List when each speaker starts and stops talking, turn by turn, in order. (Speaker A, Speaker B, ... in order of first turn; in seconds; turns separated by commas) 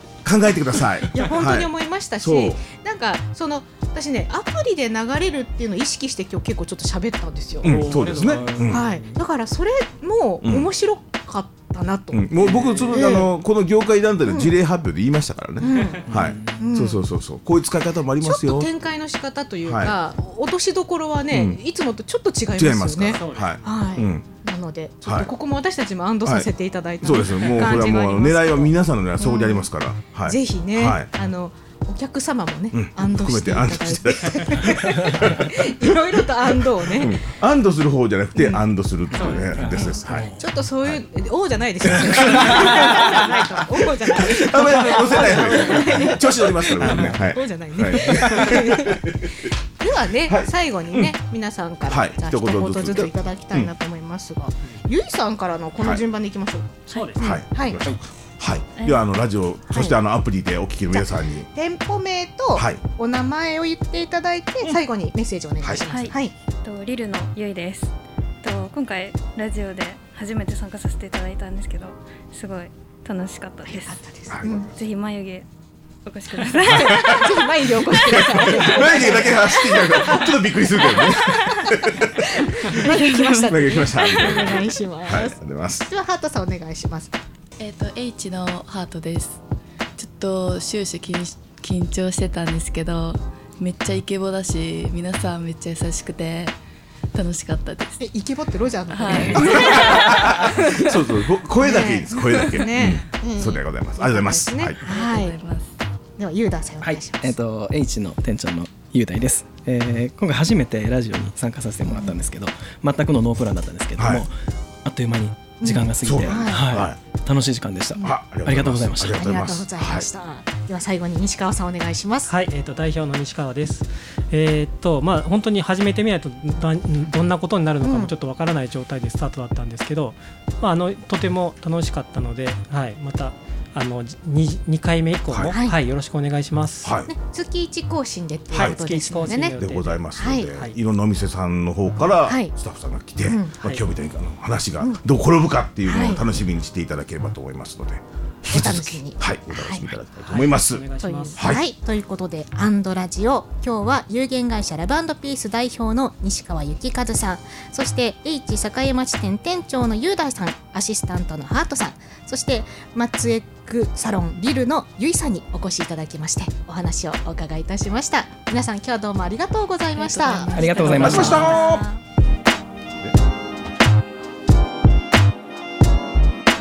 Speaker A: 0.2-2.6, Speaker B: 1.1-7.8, Speaker C: 7.6-9.0, Speaker A: 7.6-8.9, Speaker D: 8.1-9.2, Speaker B: 8.7-12.3, Speaker A: 10.4-10.7, Speaker A: 12.1-18.7, Speaker C: 12.3-13.2, Speaker B: 12.9-13.3, Speaker B: 14.2-14.5, Speaker B: 15.6-17.0, Speaker C: 15.6-16.3, Speaker D: 16.1-16.7, Speaker B: 18.2-29.7, Speaker A: 19.6-20.0, Speaker A: 21.3-21.6, Speaker A: 22.5-24.3, Speaker C: 23.1-23.8, Speaker A: 25.0-25.3, Speaker A: 26.2-26.5, Speaker A: 27.0-31.1, Speaker E: 27.4-28.3, Speaker B: 30.2-37.2, Speaker A: 32.7-36.0, Speaker A: 36.8-40.3, Speaker B: 38.3-38.6, Speaker C: 39.1-40.3, Speaker D: 39.2-40.4, Speaker B: 39.7-57.8, Speaker A: 41.8-49.5, Speaker A: 50.2-51.1, Speaker A: 51.9-53.7, Speaker C: 56.9-57.2, Speaker A: 57.2-61.5, Speaker E: 58.8-59.0, Speaker B: 59.7-60.0, Speaker B: 60.9-66.3, Speaker A: 62.5-62.8, Speaker E: 65.9-74.0, Speaker B: 73.6-74.7, Speaker A: 74.3-74.7, Speaker E: 74.7-75.5, Speaker E: 76.0-77.5, Speaker A: 76.6-82.8, Speaker B: 76.6-81.2, Speaker E: 81.2-81.7, Speaker B: 81.7-87.1, Speaker E: 82.7-84.5, Speaker A: 83.4-85.9, Speaker F: 87.6-89.4, Speaker F: 90.0-96.5, Speaker F: 97.1-98.1, Speaker B: 98.0-101.0, Speaker F: 98.9-100.2, Speaker A: 99.3-104.8, Speaker B: 101.6-105.4, Speaker F: 104.8-105.7, Speaker B: 106.2-107.3, Speaker D: 106.8-119.3, Speaker A: 114.0-114.2, Speaker B: 115.6-116.7, Speaker A: 116.0-117.0, Speaker A: 118.0-120.1, Speaker B: 119.1-122.3, Speaker C: 122.3-136.9, Speaker B: 127.8-128.1, Speaker A: 135.3-135.5, Speaker A: 136.8-137.1, Speaker B: 137.1-139.6, Speaker C: 138.5-140.8, Speaker A: 138.5-138.8, Speaker A: 139.6-150.8, Speaker B: 140.2-140.5, Speaker B: 142.2-142.5, Speaker B: 143.3-143.6, Speaker B: 145.8-146.2, Speaker B: 148.5-149.9, Speaker C: 150.2-151.6, Speaker B: 151.0-171.4, Speaker A: 151.3-151.7, Speaker E: 169.9-172.0, Speaker D: 170.5-171.6, Speaker A: 171.0-171.9